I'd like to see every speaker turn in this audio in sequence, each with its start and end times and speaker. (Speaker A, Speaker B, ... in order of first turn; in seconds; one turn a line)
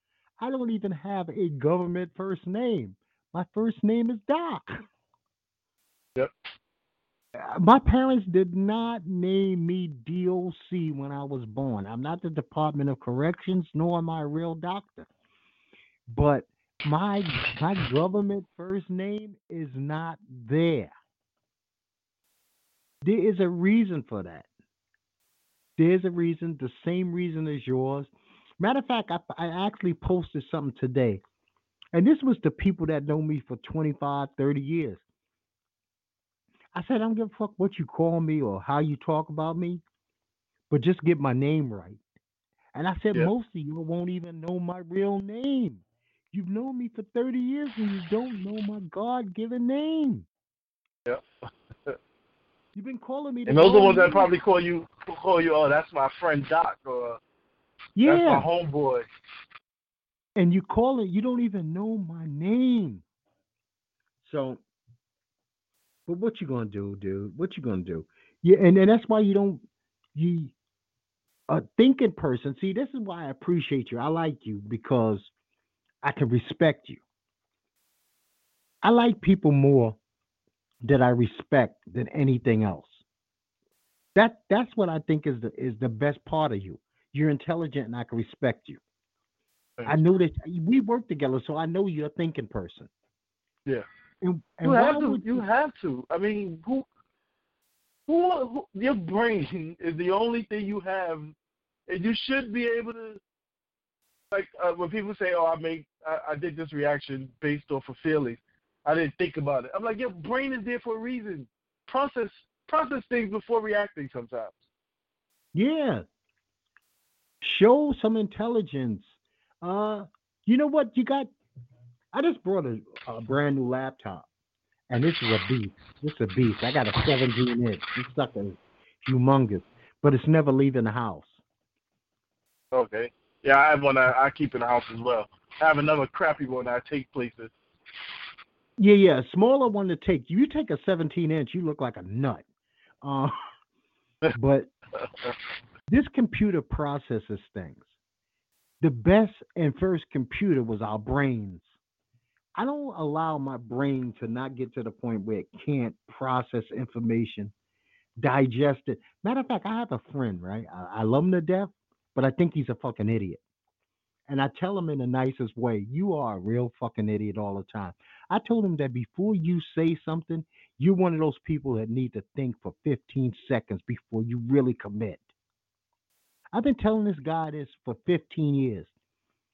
Speaker A: 0.4-4.7
Speaker A: 7.4-15.1
Speaker A: 16.1-20.9
Speaker A: 23.0-24.5
Speaker A: 25.8-31.2
Speaker A: 31.9-35.0
Speaker A: 36.7-39.8
Speaker A: 40.7-42.0
Speaker A: 42.7-50.3
Speaker A: 52.7-54.3
Speaker B: 53.5-57.2
Speaker A: 58.0-58.5
Speaker B: 58.0-59.0
Speaker A: 60.4-63.0
Speaker A: 64.2-64.6
Speaker A: 66.1-69.6
Speaker A: 70.1-70.5
Speaker A: 71.5-75.3
Speaker A: 76.0-77.0
Speaker A: 78.8-80.0
Speaker A: 80.8-83.0
Speaker A: 84.1-88.8
Speaker A: 89.8-92.9
Speaker A: 94.2-95.4
Speaker B: 94.6-96.8
Speaker B: 98.1-101.3
Speaker B: 101.9-103.2
Speaker B: 104.3-114.6
Speaker A: 115.5-116.0
Speaker A: 117.4-119.1
Speaker A: 119.6-121.3
Speaker A: 122.1-124.3
Speaker A: 124.9-131.4
Speaker B: 132.7-137.5
Speaker A: 138.8-142.4
Speaker A: 143.0-143.3
Speaker A: 144.3-144.7
Speaker B: 145.0-145.3
Speaker A: 145.9-147.8
Speaker A: 148.8-151.6
Speaker A: 152.6-157.5
Speaker A: 158.2-163.4
Speaker A: 164.3-175.2
Speaker A: 176.5-178.9